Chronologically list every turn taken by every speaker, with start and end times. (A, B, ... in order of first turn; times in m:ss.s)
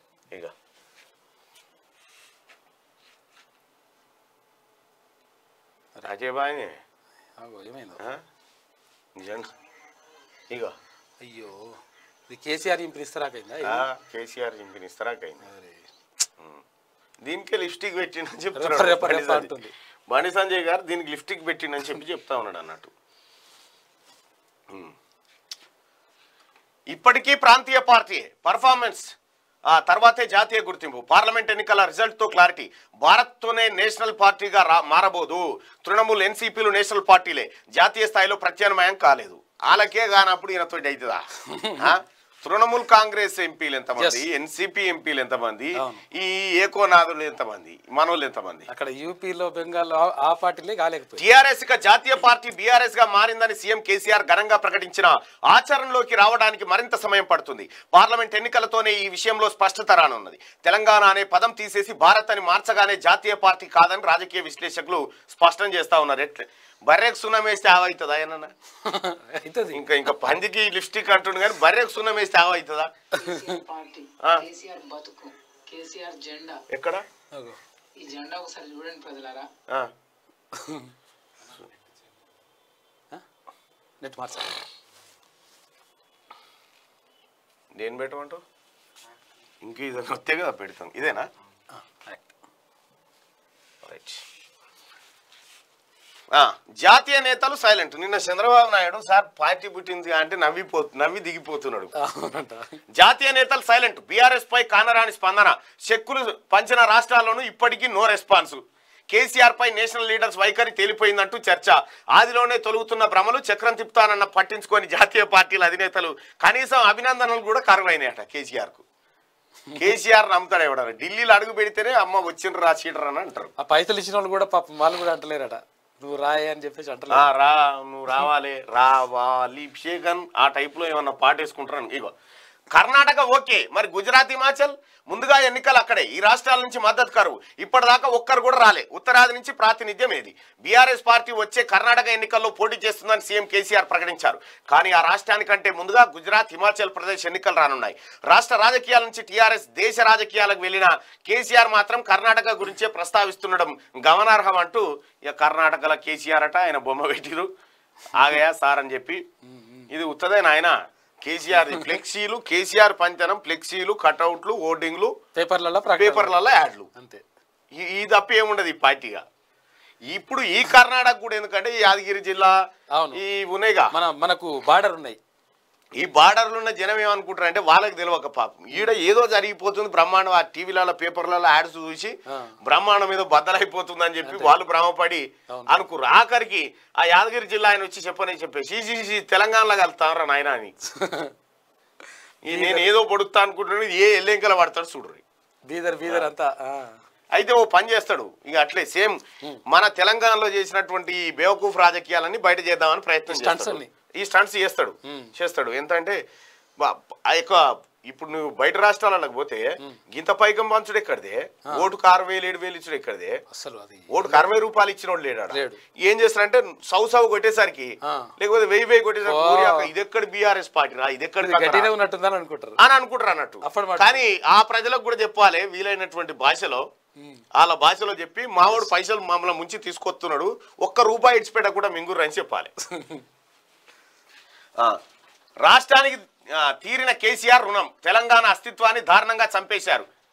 0:06.0-0:06.8 A
0:07.4-0:08.0 B
0:09.2-0:09.5 A
0:11.2-0:13.9 B
0:13.6-0:15.4 A
0:15.4-0:15.9 B
0:17.2-0:19.5 A
0:18.5-0:19.7 B
0:20.1-0:22.9 A
0:24.7-0:24.9 A
0:26.9-0:29.1 A
0:29.7-0:41.2 A
0:41.4-0:42.0 B
0:41.8-0:48.7 A
0:44.0-0:44.2 B
0:45.8-0:46.0 B
0:48.7-0:51.2 B
0:51.2-1:08.5 A
1:08.8-1:09.8 B
1:09.7-1:12.9 A
1:13.1-1:13.4 B
1:13.2-1:16.6 C
1:16.7-1:17.0 A
1:17.3-1:17.6 B
1:18.0-1:19.5 C
1:20.5-1:20.9 B
1:24.0-1:24.6 B
1:27.7-1:28.4 A
1:29.6-1:31.3 A
1:31.7-1:32.3 B
1:33.8-1:34.2 A
1:36.3-1:41.9 A
1:42.0-1:42.8 B
1:42.9-1:58.8 A
1:59.7-1:59.9 B
1:59.8-2:03.5 A
2:03.6-2:07.3 B
2:07.1-2:12.1 A
2:12.7-2:37.5 A
2:38.1-2:39.2 A
2:39.4-2:39.9 B
2:39.9-2:45.1 A
2:41.5-2:41.9 B
2:45.3-2:46.4 B
2:46.0-2:46.9 A
2:47.0-2:47.2 B
2:47.7-2:49.2 A
2:50.1-2:52.6 A
2:52.9-2:53.2 B
2:53.1-2:53.9 A
2:53.9-2:55.2 B
2:56.0-3:10.8 A
3:02.3-3:02.6 B
3:04.2-3:04.5 B
3:05.5-3:05.9 B
3:10.9-3:11.3 B
3:12.5-3:15.2 A
3:12.5-3:12.9 B
3:15.7-3:17.0 B
3:17.3-3:26.2 A
3:23.3-3:23.9 B
3:25.0-3:25.3 B
3:26.8-3:33.4 A
3:33.5-3:34.5 B
3:34.1-3:41.9 A
3:35.5-3:35.8 B
3:38.0-3:38.3 B
3:39.2-3:39.9 B
3:41.4-3:42.8 B
3:42.8-3:46.8 A
3:43.6-3:44.2 B
3:47.6-3:52.7 A
3:52.8-3:53.2 B
3:55.6-4:00.1 A